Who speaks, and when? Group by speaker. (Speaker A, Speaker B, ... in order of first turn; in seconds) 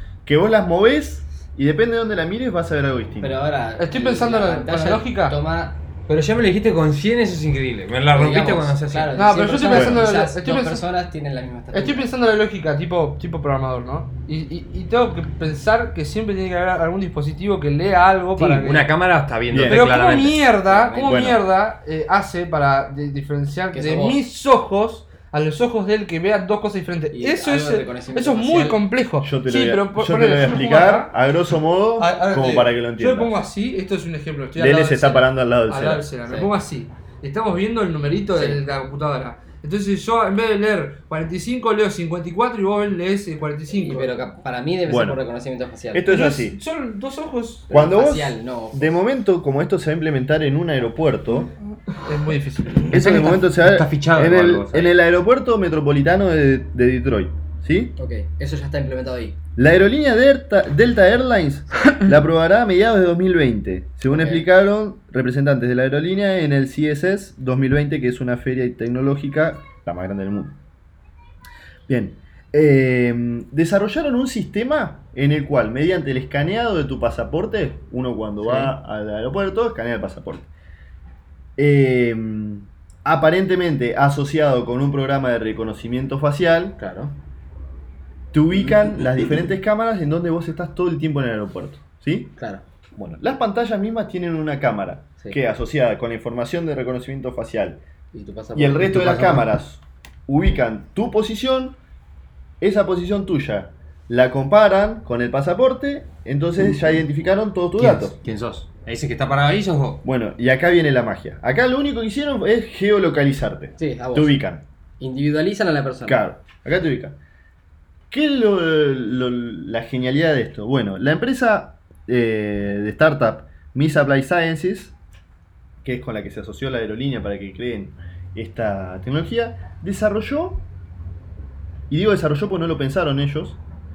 Speaker A: 0.2-3.4, 9.7-10.1, 19.5-19.9, 21.1-21.4, 29.2-33.4, 34.6-36.1, 44.9-45.2, 45.9-46.6, 47.7-51.5, 52.9-57.9, 59.5-70.6, 71.9-80.5, 81.6-86.8, 88.3-92.3, 93.0-97.8, 98.5-101.8, 102.6-108.2, 110.0-114.6, 116.0-117.2, 118.1-125.0, 125.8-130.7, 131.9-133.6
Speaker B: 3.2-5.8, 8.1-12.1, 20.6-21.2, 23.7-24.2, 27.1-28.8, 36.2-36.5, 38.3-38.6, 43.8-46.0, 47.7-49.0, 58.0-59.4, 64.1-64.4, 86.8-87.2, 92.4-92.6, 98.1-99.0, 113.8-114.4, 115.0-116.2
Speaker C: 3.8-5.3, 9.2-10.8, 11.7-18.9, 19.6-31.1, 32.0-44.1, 46.1-47.7, 51.9-53.2
Speaker D: 6.1-9.1, 18.4-20.5, 52.9-54.9, 98.8-99.5, 107.8-110.0